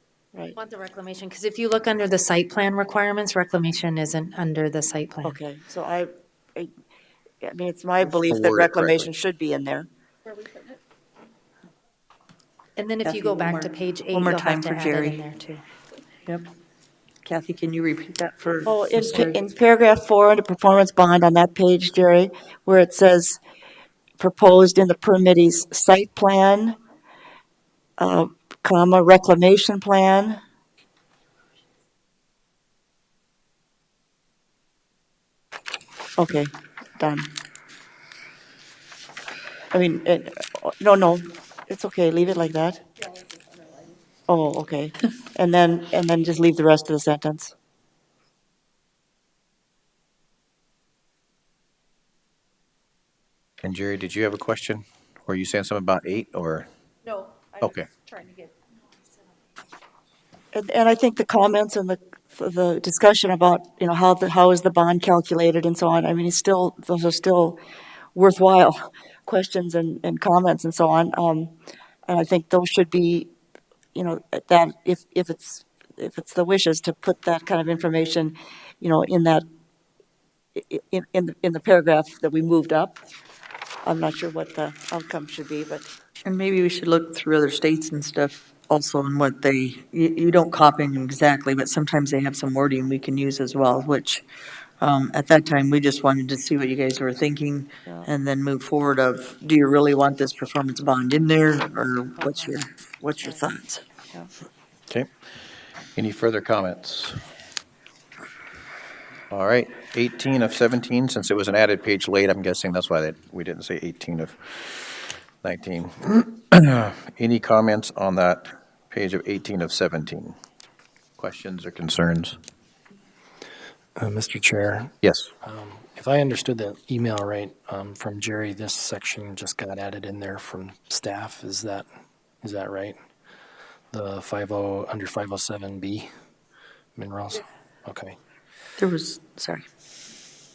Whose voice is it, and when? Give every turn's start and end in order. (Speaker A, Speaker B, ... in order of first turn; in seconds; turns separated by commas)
Speaker A: 0.6-5.4, Speaker B: 5.2-6.7, Speaker B: 7.4-9.9, Speaker C: 8.0-9.1, Speaker D: 10.3-10.8, Speaker A: 12.8-15.6, Speaker E: 13.0-15.2, Speaker E: 17.2-19.4, Speaker B: 18.7-23.4, Speaker B: 24.2-26.8, Speaker B: 28.0-30.4, Speaker B: 36.2-37.3, Speaker B: 39.7-42.8, Speaker D: 43.6-43.9, Speaker B: 44.3-47.5, Speaker C: 53.6-56.7, Speaker D: 57.0-58.5, Speaker C: 57.6-57.9, Speaker B: 60.5-67.6, Speaker B: 68.2-71.5, Speaker B: 72.1-73.3, Speaker B: 74.0-79.5, Speaker B: 80.5-83.0, Speaker B: 83.8-85.9, Speaker E: 86.2-94.2, Speaker E: 94.8-103.8, Speaker B: 102.2-102.6, Speaker B: 103.2-103.5, Speaker C: 106.0-107.2, Speaker C: 109.3-120.4, Speaker C: 121.2-122.4, Speaker F: 124.0-131.9, Speaker C: 125.0-125.3, Speaker F: 132.4-133.0, Speaker F: 133.9-136.1, Speaker F: 137.0-138.2, Speaker E: 138.8-139.7